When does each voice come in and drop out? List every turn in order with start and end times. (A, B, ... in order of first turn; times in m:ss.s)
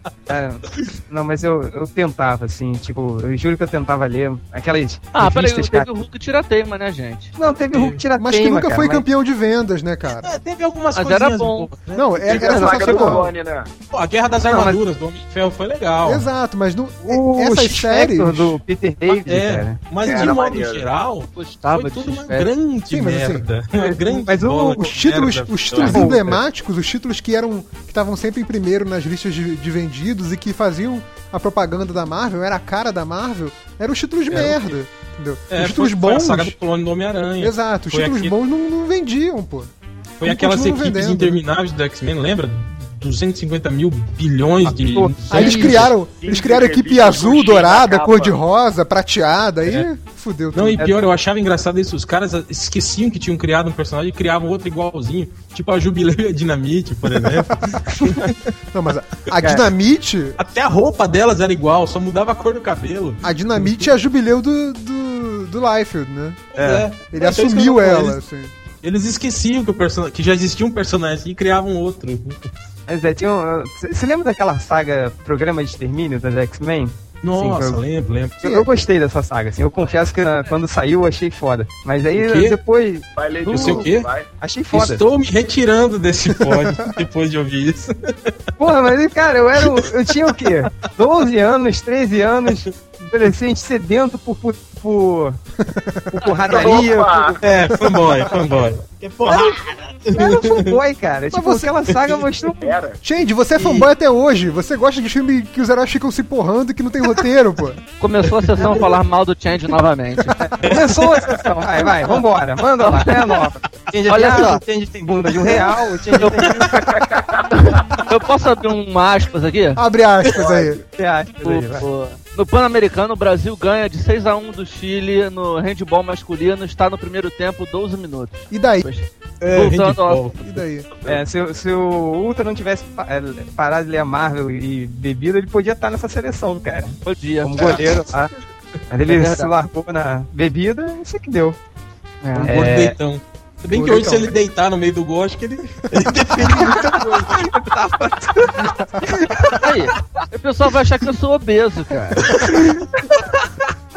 0:00.3-0:05.9 A
0:05.1-0:07.3 B
0:07.4-0:09.0 A
0:07.7-0:08.0 C
0:08.2-0:10.4 D
0:10.2-0:12.4 C
0:11.0-0:11.7 B
0:11.9-0:13.3 D
0:12.3-0:13.7 E
0:12.3-0:13.3 A
0:13.9-0:16.3 C
0:14.5-0:14.8 A
0:16.0-0:18.6 D
0:17.1-0:20.2 A
0:19.1-0:26.1 C
0:20.0-0:20.9 E
0:21.4-0:22.5 B
0:22.9-0:23.5 D
0:23.8-0:24.9 A
0:24.8-0:36.6 D
0:25.8-0:26.4 A
0:34.3-0:34.8 C
0:35.5-0:38.4 C
0:37.4-0:39.7 D
0:40.2-0:45.9 C
0:40.2-0:41.4 D
0:44.6-0:45.9 A
0:45.3-0:50.9 D
0:46.1-0:48.4 E
0:50.5-0:58.4 C
0:57.1-0:58.2 D
0:58.7-1:00.4 D
1:00.4-1:03.9 C
1:03.2-1:06.5 D
1:06.5-1:08.2 C
1:06.6-1:06.9 A
1:07.1-1:08.5 D
1:08.8-1:12.4 C
1:12.9-1:17.8 A
1:17.2-1:18.5 C
1:18.4-1:23.9 A
1:22.1-1:22.6 C
1:23.2-1:24.3 E
1:23.5-1:24.1 C
1:24.4-1:25.0 A
1:24.7-1:28.3 C
1:26.3-1:27.0 D
1:28.6-1:35.4 A
1:29.6-1:29.9 C
1:35.6-1:36.3 D
1:36.1-1:37.4 A
1:36.4-1:37.4 E
1:37.4-1:40.8 C
1:37.7-1:38.1 D
1:39.2-1:39.6 A
1:40.1-1:42.8 A
1:41.3-1:41.8 D
1:41.9-1:42.2 C
1:42.6-1:43.0 E
1:43.0-1:47.8 D
1:43.6-1:43.9 A
1:48.0-1:50.4 B
1:48.6-1:48.9 A
1:50.4-1:56.9 A
1:50.6-1:51.4 C
1:52.8-1:53.3 B
1:54.1-1:54.6 B
1:56.1-1:56.6 B
1:56.7-1:57.5 E
1:57.4-1:59.8 B
1:59.8-2:00.8 D
2:00.4-2:00.9 E
2:01.0-2:01.9 A
2:01.4-2:10.4 B
2:08.5-2:08.8 D
2:09.4-2:10.4 C
2:10.4-2:10.9 D
2:10.9-2:11.2 E
2:11.1-2:18.3 A
2:17.0-2:17.9 B
2:18.9-2:21.6 A
2:19.1-2:19.5 B
2:22.2-2:22.5 B
2:22.4-2:27.6 C
2:22.4-2:23.0 A
2:23.7-2:24.3 D
2:26.3-2:29.6 A
2:28.6-2:29.1 D
2:29.5-2:32.3 B
2:32.2-2:33.5 C
2:32.5-2:32.8 A